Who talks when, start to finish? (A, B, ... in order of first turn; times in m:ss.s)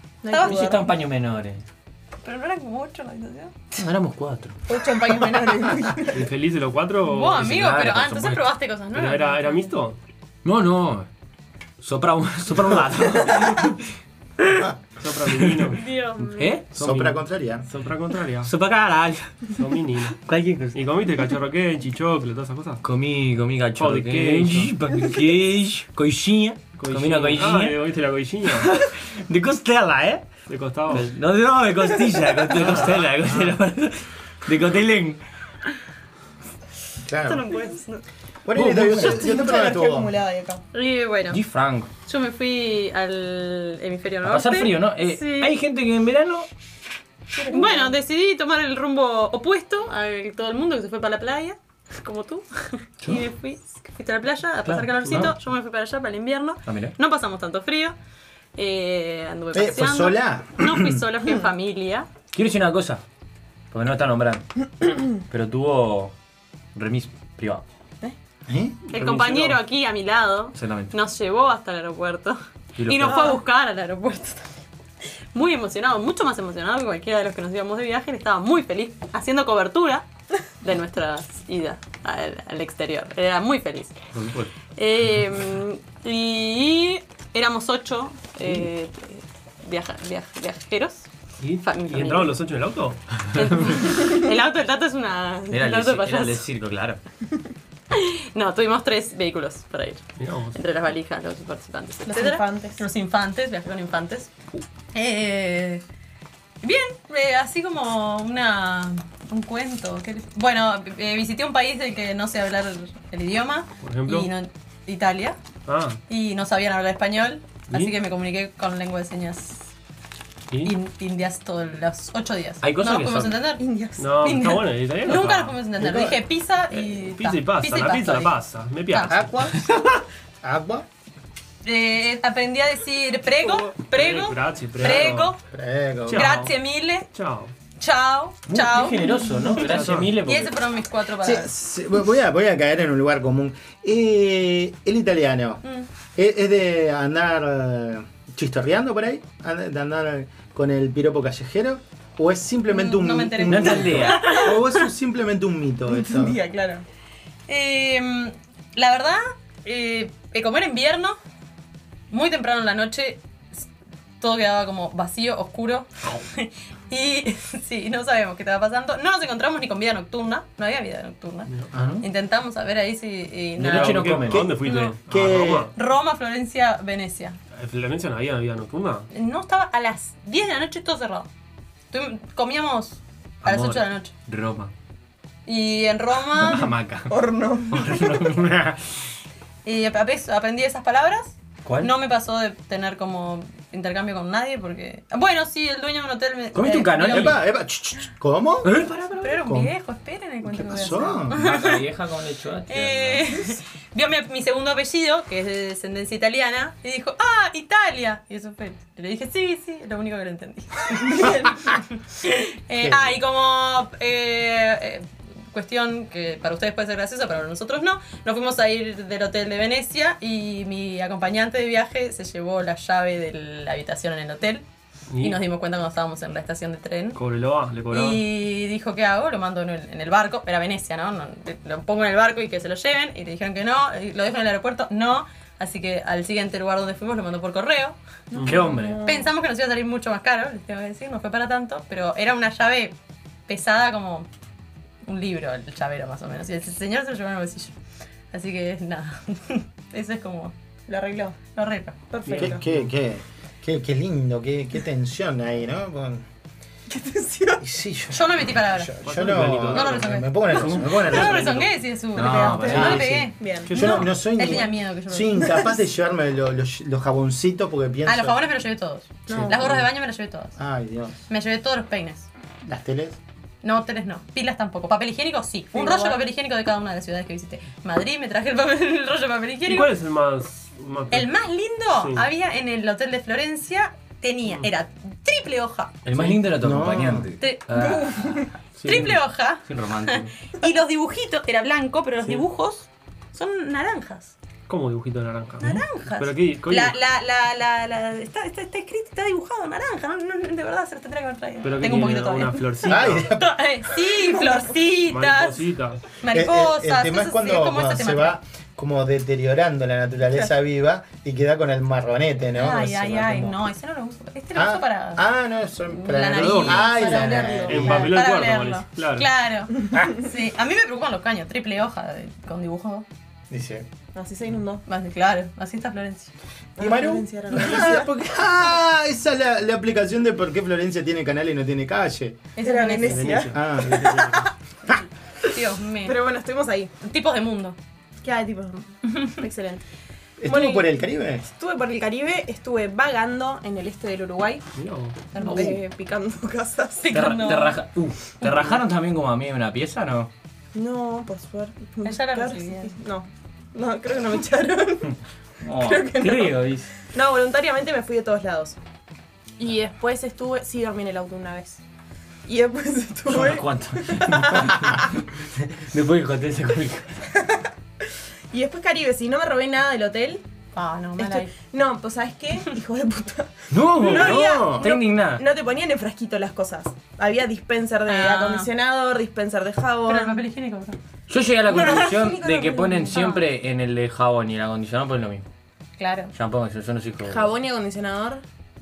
0:00.2-0:01.0 A
0:00.3-0:00.6 B
0:00.4-0:01.6 C
0:02.2-0:03.6 B
0:03.7-0:04.6 C
0:04.7-0:06.3 A
0:06.1-0:07.5 D
0:07.0-0:09.6 B
0:07.4-0:08.4 C
0:08.9-0:10.0 D
0:10.4-0:11.1 C
0:11.8-0:13.8 C
0:14.4-0:14.7 C
0:15.0-0:15.8 D
0:15.4-0:15.8 C
0:15.7-0:16.6 B
0:16.4-0:16.7 C
0:16.7-0:18.5 D
0:16.8-0:17.6 E
0:18.4-0:19.5 C
0:19.5-0:20.2 D
0:20.2-0:20.8 C
0:20.7-0:22.8 D
0:22.8-0:27.8 C
0:23.8-0:24.7 D
0:26.7-0:28.8 D
0:28.5-0:30.3 C
0:30.5-0:31.1 D
0:30.9-0:35.2 C
0:32.5-0:33.0 D
0:37.1-0:37.4 E
0:37.2-0:38.0 B
0:38.4-0:40.1 E
0:38.5-0:39.3 C
0:39.0-0:40.6 A
0:40.7-0:41.4 B
0:41.3-0:41.9 C
0:42.0-0:45.6 B
0:44.2-0:46.5 C
0:47.3-0:48.0 A
0:47.5-0:58.0 B
0:54.6-0:55.3 C
0:56.6-0:56.9 C
0:58.6-1:02.1 B
0:59.5-1:01.0 E
1:02.3-1:03.0 C
1:03.7-1:06.1 C
1:06.7-1:07.6 C
1:08.5-1:08.8 E
1:08.9-1:09.6 D
1:08.9-1:14.5 B
1:10.5-1:11.0 C
1:12.8-1:13.4 C
1:13.1-1:13.3 A
1:15.3-1:20.0 B
1:20.6-1:24.0 B
1:24.1-1:24.5 C
1:24.7-1:32.4 B
1:31.4-1:33.6 D
1:33.3-1:36.4 B
1:35.5-1:37.0 C
1:37.9-1:44.3 B
1:40.2-1:40.6 D
1:42.0-1:42.8 A
1:44.9-1:45.8 B
1:46.6-1:55.4 B
1:53.8-1:54.3 D
1:55.7-1:56.0 D
1:56.1-1:59.7 B
2:00.6-2:08.3 B
2:02.6-2:03.4 C
2:03.6-2:04.1 A
2:04.0-2:05.6 D
2:05.8-2:06.2 E
2:06.7-2:09.5 D
2:08.9-2:09.2 B
2:09.1-2:10.8 E
2:11.6-2:15.4 B
2:13.4-2:15.3 D
2:14.8-2:16.3 E
2:16.0-2:16.5 D
2:16.1-2:17.1 B
2:17.1-2:17.5 D
2:17.8-2:19.6 B
2:18.5-2:20.5 C
2:19.5-2:20.1 D
2:20.2-2:21.5 B
2:21.2-2:25.6 E
2:25.6-2:25.9 B
2:26.2-2:36.4 E
2:32.7-2:34.9 B
2:33.4-2:34.4 C
2:35.9-2:36.8 A
2:37.5-2:41.2 B
2:42.1-2:43.7 B
2:44.2-2:55.0 B
2:51.7-2:52.0 C
2:53.6-2:54.5 C
2:53.6-2:55.7 D
2:54.3-2:55.7 E
2:55.7-2:57.4 B
2:57.5-2:59.1 D
2:59.1-3:01.3 B
3:01.9-3:04.1 B
3:03.4-3:04.7 C
3:05.4-3:06.7 B
3:06.3-3:07.2 C
3:07.1-3:07.9 A
3:07.7-3:08.8 C
3:09.6-3:17.4 B
3:11.6-3:11.9 C
3:16.5-3:17.4 C
3:17.1-3:18.7 E
3:18.6-3:19.4 C
3:19.2-3:21.8 B
3:19.4-3:19.7 E
3:20.4-3:21.4 E
3:21.3-3:23.2 C
3:22.7-3:44.6 B
3:32.8-3:33.2 E
3:45.1-3:45.4 D
3:45.2-3:47.2 B
3:47.1-3:48.2 D
3:47.9-3:58.0 B
3:58.3-3:59.3 A
3:58.3-3:58.6 D
3:58.4-3:59.0 C
3:59.0-4:02.9 B
4:03.5-4:04.3 B
4:05.0-4:07.7 B
4:08.3-4:10.5 B
4:10.9-4:11.4 A
4:11.5-4:12.0 B
4:12.1-4:12.6 A
4:12.3-4:12.8 D
4:12.3-4:16.2 E
4:16.9-4:17.6 A
4:17.6-4:21.4 E
4:18.1-4:19.0 B
4:19.0-4:21.8 D
4:19.7-4:25.6 B
4:20.5-4:21.4 C
4:22.1-4:23.4 C
4:22.1-4:23.7 A
4:22.6-4:23.1 E
4:23.6-4:24.1 D
4:23.7-4:28.4 E
4:25.4-4:25.7 A
4:28.0-4:30.6 B
4:29.3-4:29.7 A
4:30.6-4:31.2 E
4:31.3-4:32.3 B
4:32.7-4:33.2 E
4:33.6-4:39.9 B
4:35.7-4:36.2 A
4:39.6-4:41.3 D
4:41.1-4:45.9 B
4:42.0-4:42.2 D
4:46.0-4:48.4 C
4:46.1-4:46.4 D
4:46.6-4:47.3 E
4:47.4-4:54.3 B
4:48.8-4:49.2 D
4:49.6-4:50.3 C
4:54.7-4:57.0 D
4:55.6-5:08.4 B
5:01.6-5:03.3 D
5:02.8-5:03.6 E
5:05.0-5:06.0 D
5:06.3-5:13.6 E
5:12.5-5:15.2 B
5:14.5-5:18.1 E
5:15.9-5:23.0 B
5:16.4-5:16.8 D
5:16.8-5:18.0 A
5:17.6-5:19.3 D
5:23.5-5:23.9 E
5:24.1-5:24.8 A
5:24.8-5:26.3 B
5:26.8-5:28.1 A
5:26.8-5:32.4 E
5:32.5-5:33.3 B
5:32.6-5:34.5 A
5:33.0-5:34.5 D
5:33.5-5:34.1 E
5:35.4-5:36.2 B
5:36.0-5:36.9 A
5:37.0-5:37.8 B
5:38.2-5:39.8 A
5:40.4-5:41.4 E
5:40.5-5:40.9 A
5:41.4-5:44.6 A
5:44.7-5:45.3 D
5:45.3-5:45.8 B
5:45.4-5:45.8 C
5:45.4-5:47.1 A
5:47.0-5:47.8 B
5:47.1-5:50.3 C
5:48.4-5:48.8 B
5:50.7-5:55.1 A
5:52.0-5:52.9 B
5:55.6-5:56.9 C
5:55.7-5:58.8 A
5:59.6-6:01.8 A
6:02.4-6:04.8 A
6:03.2-6:07.3 C
6:08.5-6:10.4 A
6:10.7-6:11.5 B
6:11.2-6:20.4 A
6:13.7-6:15.5 C
6:18.1-6:18.7 B
6:20.0-6:21.0 B
6:21.3-6:25.4 C
6:21.7-6:23.2 A
6:23.1-6:23.4 B
6:26.0-6:26.3 B
6:26.3-6:27.5 C
6:27.2-6:28.4 A